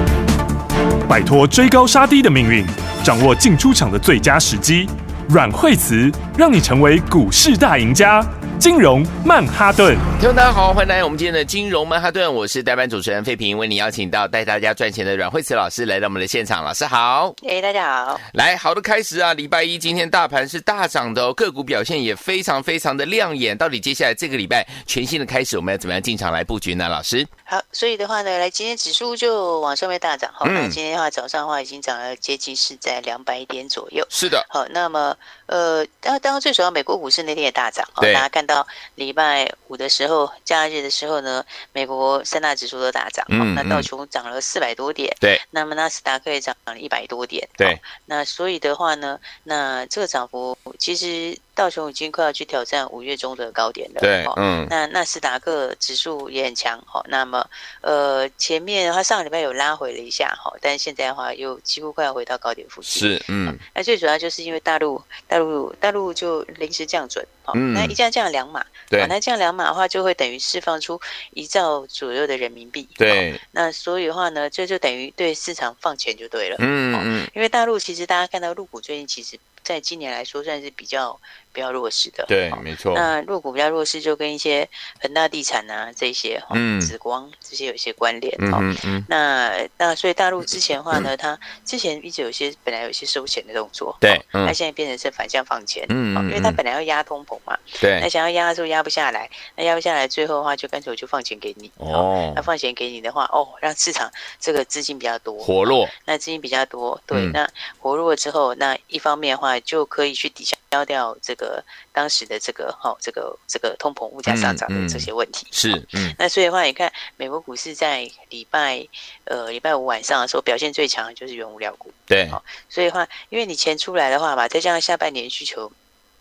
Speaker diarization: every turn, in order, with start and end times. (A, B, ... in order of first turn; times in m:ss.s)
0:01.1-0:10.0 A
0:10.1-0:17.3 B
0:17.4-0:18.2 C
0:18.3-0:27.3 B
0:27.4-2:05.7 C
0:30.4-0:30.8 B
0:34.1-0:34.4 B
0:43.3-0:43.9 B
0:54.0-0:54.7 B
1:02.8-1:03.6 B
1:07.5-1:08.0 B
1:13.0-1:13.4 B
1:16.6-1:17.3 B
1:22.3-1:23.1 B
1:26.5-1:26.9 B
1:28.4-1:29.1 B
1:34.0-1:34.5 B
1:35.9-1:36.6 B
1:37.8-1:38.1 B
1:41.8-1:42.4 B
1:45.4-1:45.9 B
1:47.1-1:47.4 B
1:54.3-1:56.1 B
2:02.1-2:02.4 B